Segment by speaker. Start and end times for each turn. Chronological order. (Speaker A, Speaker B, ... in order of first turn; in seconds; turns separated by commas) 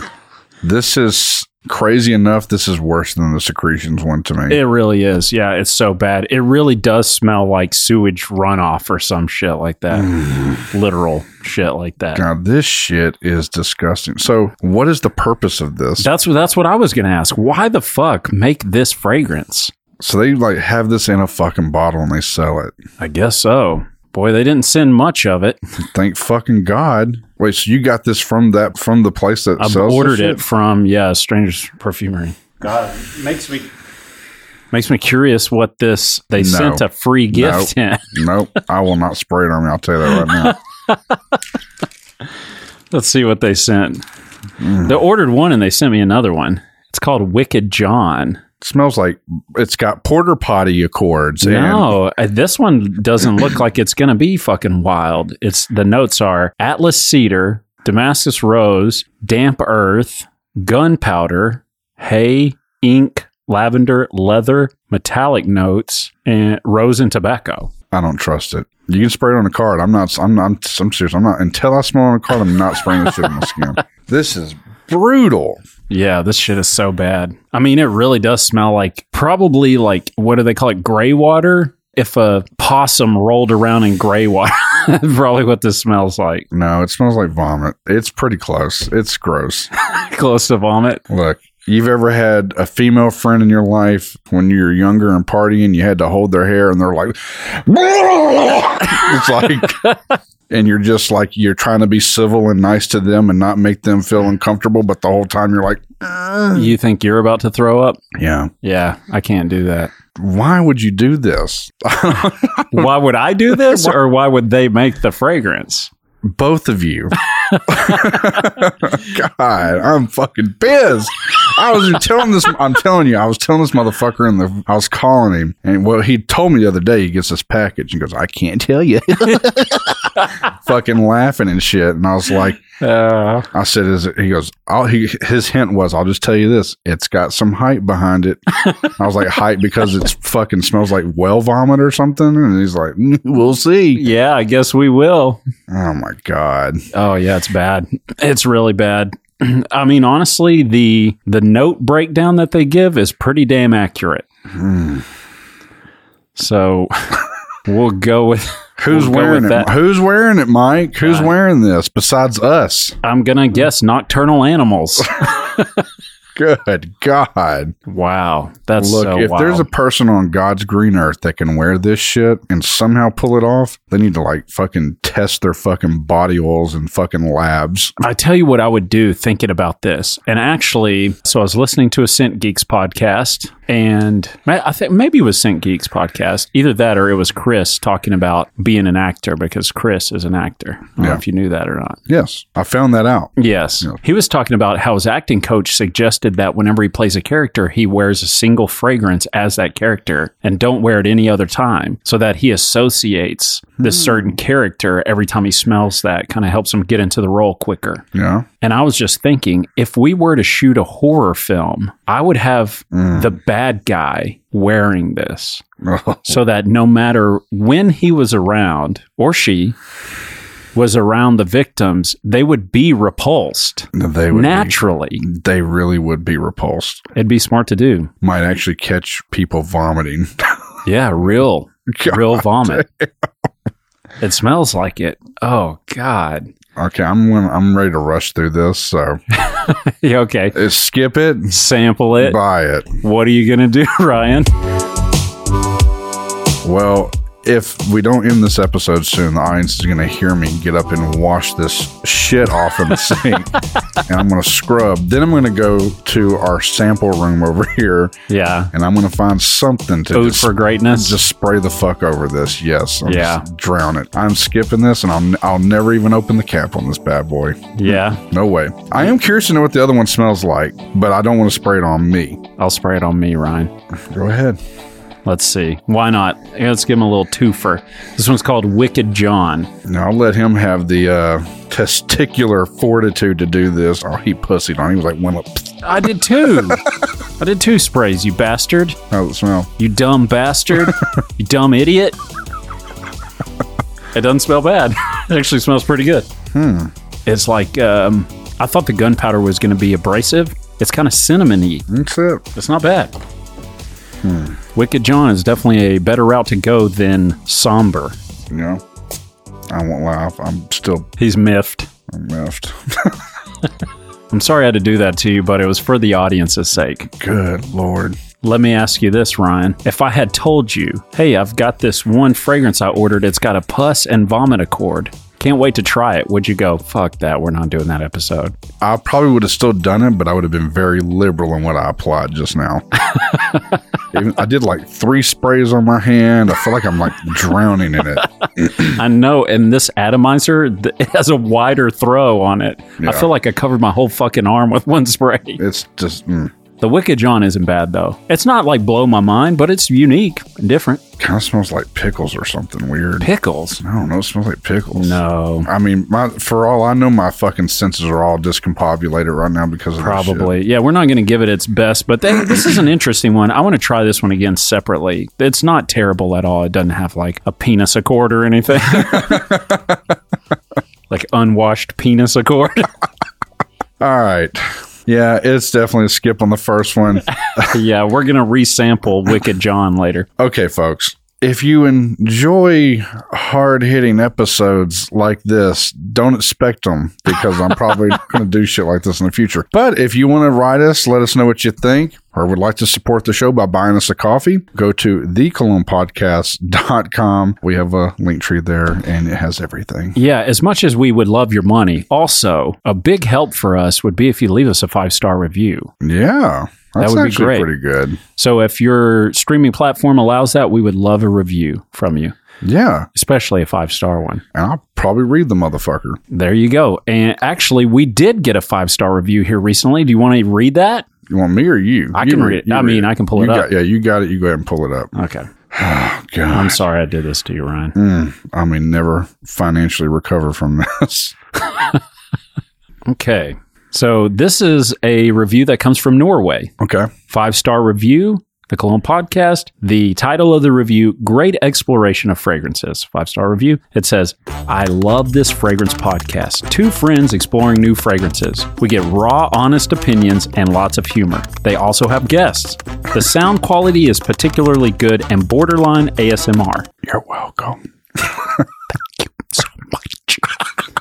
Speaker A: 0.6-4.6, Speaker B: 4.5-12.2, Speaker A: 10.0-10.4, Speaker A: 12.1-16.1, Speaker B: 16.0-19.7, Speaker A: 20.0-22.8, Speaker B: 23.0-25.6, Speaker A: 25.9-30.4, Speaker B: 29.6-33.7, Speaker B: 34.7-38.1, Speaker A: 36.4-40.6, Speaker B: 40.1-41.4, Speaker B: 42.9-44.0, Speaker A: 44.6-45.0, Speaker B: 44.8-48.4, Speaker A: 48.6-51.9, Speaker B: 51.4-67.7, Speaker A: 67.9-75.6, Speaker B: 75.9-86.5, Speaker A: 86.5-89.7, Speaker B: 89.8-91.0, Speaker A: 91.1-99.9, Speaker A: 100.5-106.7, Speaker B: 106.5-108.0, Speaker A: 108.1-108.5, Speaker B: 108.6-109.9, Speaker A: 110.2-112.9, Speaker B: 112.7-115.9, Speaker A: 113.5-114.0, Speaker A: 116.2-132.6, Speaker B: 117.5-118.3, Speaker B: 132.8-133.5, Speaker A: 133.5-144.1, Speaker B: 138.6-138.9, Speaker B: 143.9-145.4, Speaker A: 145.7-146.8, Speaker B: 146.9-154.2, Speaker A: 154.5-155.1, Speaker B: 156.3-159.7, Speaker A: 158.8-163.0, Speaker B: 161.0-161.3, Speaker B: 163.0-165.8, Speaker A: 166.3-167.7, Speaker B: 167.9-169.7, Speaker A: 168.8-177.9, Speaker B: 178.0-192.0, Speaker A: 192.1-193.9, Speaker B: 193.4-208.0, Speaker A: 203.8-204.3, Speaker A: 208.1-208.4, Speaker B: 208.6-215.6, Speaker A: 212.9-213.3, Speaker A: 215.8-216.4, Speaker B: 216.3-219.7, Speaker B: 220.7-225.2, Speaker A: 223.9-227.0, Speaker B: 227.1-228.1, Speaker A: 228.2-230.5, Speaker B: 230.8-232.8, Speaker A: 231.9-233.3, Speaker B: 234.2-236.5, Speaker A: 236.8-239.2, Speaker B: 239.3-240.6, Speaker A: 240.5-241.6, Speaker B: 241.5-242.4, Speaker A: 242.2-243.0, Speaker B: 243.0-244.5, Speaker A: 246.6-253.5, Speaker A: 254.0-258.1, Speaker B: 258.3-258.7, Speaker A: 258.7-272.4, Speaker B: 260.1-261.2, Speaker B: 263.0-263.4, Speaker B: 267.8-268.2, Speaker B: 272.6-273.7, Speaker A: 274.1-274.6, Speaker B: 275.2-279.7, Speaker A: 279.8-285.8, Speaker B: 285.8-289.0, Speaker A: 289.1-289.7, Speaker B: 289.8-292.1, Speaker B: 294.1-296.3, Speaker A: 296.5-296.9, Speaker B: 297.3-301.9, Speaker A: 301.9-302.4, Speaker B: 302.5-303.1, Speaker A: 304.2-304.6, Speaker B: 304.7-308.1, Speaker A: 308.5-308.8, Speaker A: 309.7-311.1, Speaker B: 311.2-311.9, Speaker A: 312.1-313.2, Speaker B: 314.3-317.1, Speaker A: 317.2-318.2, Speaker B: 318.4-328.5, Speaker A: 328.8-332.8, Speaker B: 333.2-333.6, Speaker A: 334.1-338.3, Speaker B: 338.5-345.6, Speaker A: 343.0-343.3, Speaker A: 345.6-346.5, Speaker B: 346.8-351.0, Speaker A: 351.2-360.5, Speaker B: 353.2-353.8, Speaker B: 354.9-355.7, Speaker B: 360.0-369.6, Speaker A: 368.9-369.8, Speaker B: 371.1-372.9, Speaker A: 374.0-377.8, Speaker B: 377.6-380.3, Speaker A: 380.4-400.2, Speaker B: 400.1-405.9, Speaker A: 406.0-408.2, Speaker B: 407.0-407.7, Speaker B: 408.4-412.3, Speaker A: 412.6-413.1, Speaker B: 413.1-414.4, Speaker A: 414.5-416.2, Speaker B: 416.3-421.0, Speaker A: 421.3-425.1, Speaker B: 422.1-423.7, Speaker B: 425.1-425.4, Speaker A: 425.7-426.8, Speaker B: 426.5-427.9, Speaker A: 427.9-431.3, Speaker B: 433.1-436.7, Speaker A: 436.8-437.1, Speaker B: 437.3-456.9, Speaker A: 457.1-458.6, Speaker B: 459.4-460.6